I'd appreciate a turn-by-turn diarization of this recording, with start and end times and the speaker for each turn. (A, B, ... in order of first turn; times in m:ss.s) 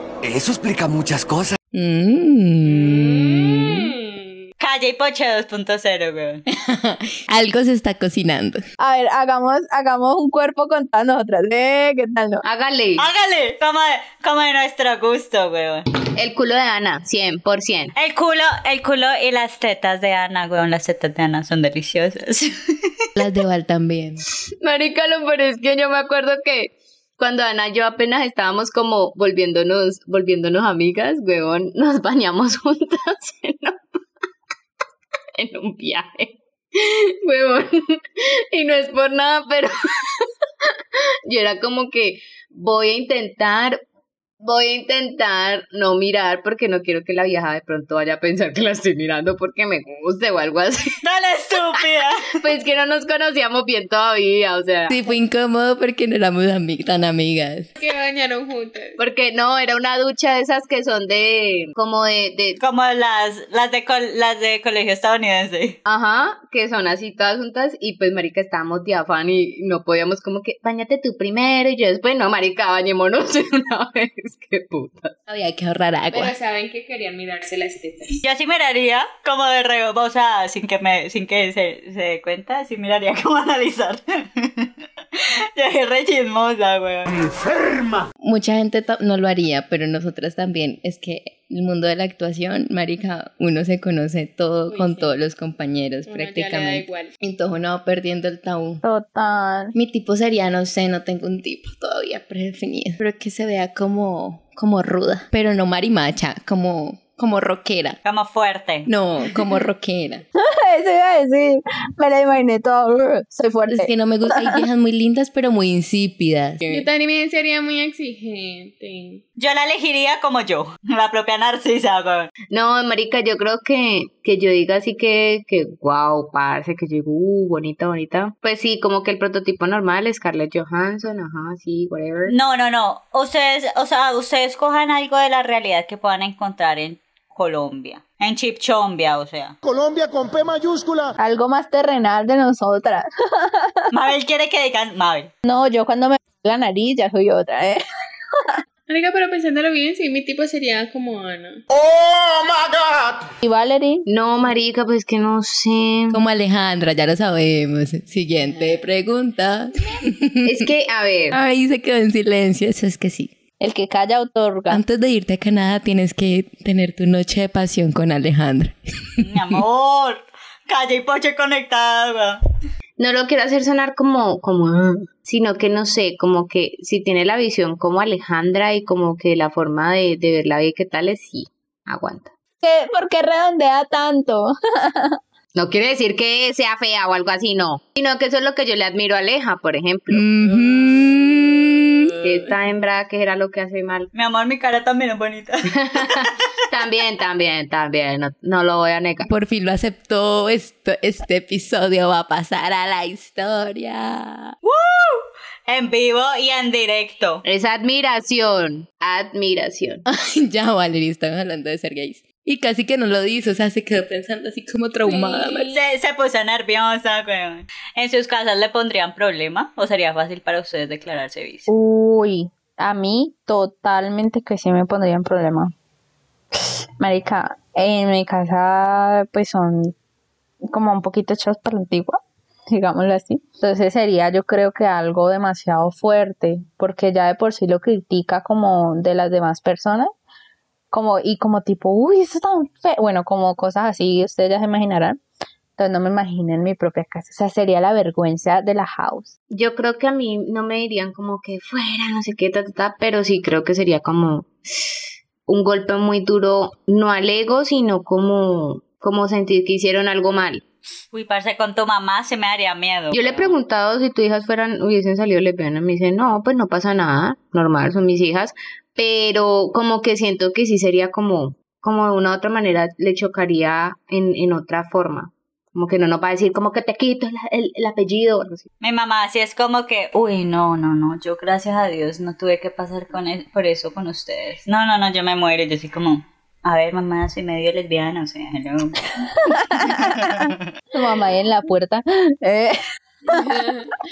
0:00.3-0:01.5 A
0:01.7-0:03.9 B
0:02.6-0:04.5 C
0:04.6-0:06.4 D
0:06.5-0:08.6 B
0:08.8-0:12.4 E
0:12.4-0:13.0 F
0:13.0-0:15.9 D
0:16.2-0:17.9 F
0:18.0-0:23.0 D
0:23.2-0:24.2 B
0:24.6-0:33.8 F
0:35.4-0:43.8 F
0:44.4-0:51.0 F
0:51.0-0:52.3 D
0:52.2-0:55.0 F
0:54.9-0:57.7 B
0:57.8-0:59.0 C
0:59.0-1:02.6 F
1:02.6-1:05.8 D
1:05.9-1:15.1 F
1:15.3-1:16.3 B
1:16.1-1:18.2 C
1:18.2-1:27.2 D
1:28.2-1:38.8 B
1:34.7-1:35.2 C
1:36.1-1:37.1 C
1:38.8-1:39.7 E
1:39.8-1:48.0 B
1:48.0-1:48.9 D
1:48.9-1:50.2 B
1:50.4-1:54.6 E
1:53.7-1:56.9 B
1:56.7-1:59.2 C
1:59.4-2:02.3 D
2:02.5-2:12.3 F
2:12.3-2:19.6 D
2:19.7-2:21.1 A
2:21.2-2:23.9 E
2:23.9-2:25.3 D
2:25.4-2:27.8 E
2:28.9-2:31.6 C
2:31.7-2:33.3 A
2:33.4-2:34.1 E
2:34.1-2:36.2 F
2:36.1-2:40.7 B
2:40.4-2:41.4 F
2:41.3-2:43.3 B
2:43.6-2:44.8 E
2:44.7-2:49.6 B
2:49.2-2:52.4 D
2:53.0-3:02.3 F
3:02.6-3:05.2 E
3:05.6-3:10.3 F
3:10.1-3:12.2 B
3:10.5-3:11.3 C
3:12.2-3:14.1 F
3:14.2-3:16.4 D
3:15.7-3:19.3 F
3:19.3-3:24.6 B
3:24.6-3:27.4 D
3:27.4-3:30.0 F
3:30.1-3:35.8 B
3:35.1-3:35.6 C
3:35.6-3:41.7 D
3:41.7-3:45.7 E
3:46.6-3:49.9 E
3:50.7-4:00.1 E
4:00.9-4:05.2 E
4:05.8-4:09.3 E
4:09.5-4:15.0 F
4:15.5-4:20.6 F
4:21.1-4:23.6 D
4:23.1-4:38.6 F
4:38.8-4:49.1 D
4:49.7-4:52.8 E
4:49.7-4:50.5 D
4:53.3-4:53.9 C
4:53.3-4:53.6 E